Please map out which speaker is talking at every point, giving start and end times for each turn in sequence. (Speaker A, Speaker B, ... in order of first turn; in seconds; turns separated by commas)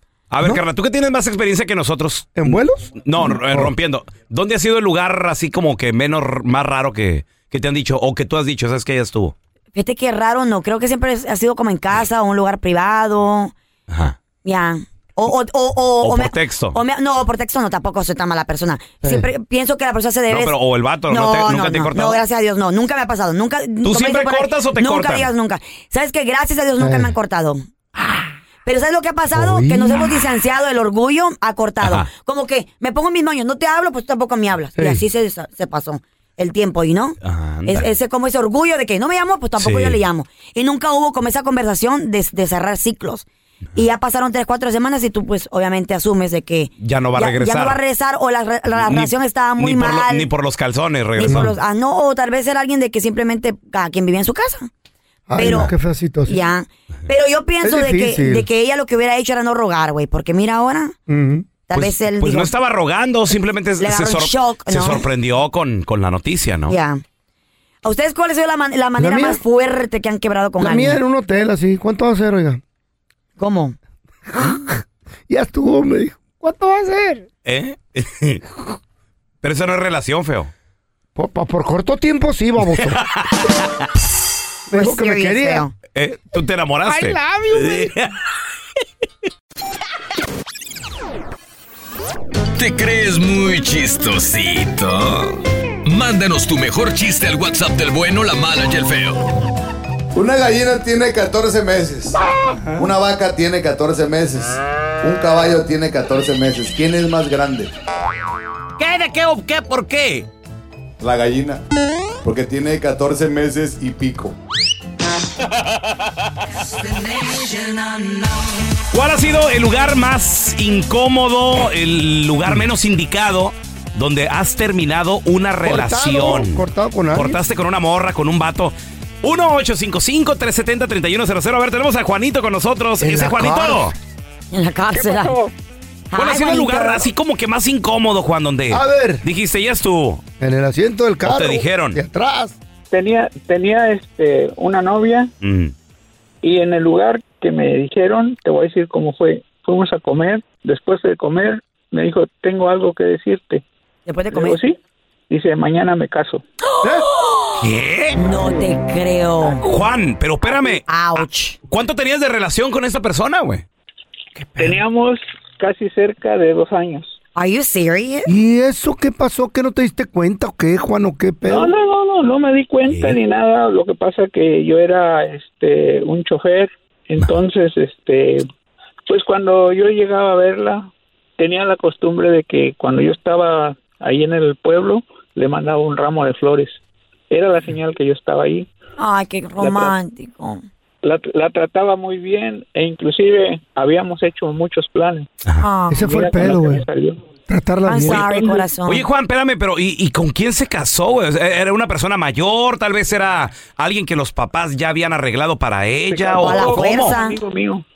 Speaker A: 0.3-9.3, Speaker B: 2.4-2.9, Speaker C: 9.8-13.5, Speaker A: 13.9-14.2, Speaker C: 14.4-20.6, Speaker A: 16.0-16.8, Speaker A: 20.3-22.2, Speaker C: 21.1-27.7, Speaker A: 23.8-25.3, Speaker B: 26.8-27.1, Speaker C: 28.6-50.3, Speaker B: 29.4-30.0, Speaker A: 31.8-32.1, Speaker A: 37.2-37.9, Speaker A: 39.6-40.0, Speaker A: 46.8-47.8, Speaker A: 48.8-51.5, Speaker C: 51.2-54.7, Speaker B: 55.3-56.4, Speaker C: 55.4-55.7, Speaker C: 56.3-61.0, Speaker B: 57.6-58.5, Speaker B: 61.1-61.4, Speaker C: 61.7-62.5, Speaker A: 61.7-66.8, Speaker C: 63.8-65.0, Speaker C: 66.7-67.0, Speaker C: 67.8-71.0, Speaker B: 69.0-69.4, Speaker B: 70.6-72.6, Speaker C: 73.4-73.8, Speaker B: 75.3-77.2, Speaker A: 77.5-78.4, Speaker A: 79.4-80.5, Speaker B: 81.2-83.0, Speaker A: 82.7-83.9, Speaker B: 84.7-85.6, Speaker C: 84.7-85.7, Speaker A: 86.0-88.2, Speaker D: 92.6-99.2, Speaker E: 100.2-102.2, Speaker E: 102.8-107.7, Speaker A: 108.8-110.3, Speaker E: 111.0-111.6, Speaker E: 112.2-114.3, Speaker A: 117.3-118.0, Speaker A: 118.9-133.9, Speaker B: 125.7-127.4, Speaker B: 133.0-133.9, Speaker C: 134.5-135.4, Speaker F: 134.9-135.5, Speaker C: 136.1-137.0, Speaker A: 136.1-140.2, Speaker B: 138.7-139.2, Speaker B: 140.4-142.6, Speaker A: 141.2-142.0, Speaker F: 142.9-145.3, Speaker A: 145.4-145.7, Speaker F: 146.4-153.6, Speaker C: 154.1-154.6, Speaker F: 154.3-154.8, Speaker F: 155.3-156.4, Speaker A: 157.6-158.3, Speaker C: 158.2-159.6, Speaker A: 159.6-163.7, Speaker C: 160.9-161.6, Speaker F: 164.6-167.2, Speaker C: 167.3-168.3, Speaker B: 168.3-171.7, Speaker F: 171.4-178.5, Speaker A: 172.9-173.2, Speaker F: 179.1-186.8, Speaker F: 187.3-188.7, Speaker C: 189.0-190.6, Speaker F: 189.6-189.9, Speaker F: 191.0-195.3, Speaker C: 195.6-196.1, Speaker B: 195.9-196.8, Speaker F: 196.0-197.2, Speaker B: 197.5-198.3, Speaker C: 197.9-199.0, Speaker F: 198.1-198.6, Speaker A: 198.9-207.2, Speaker F: 206.1-207.8, Speaker C: 206.4-207.4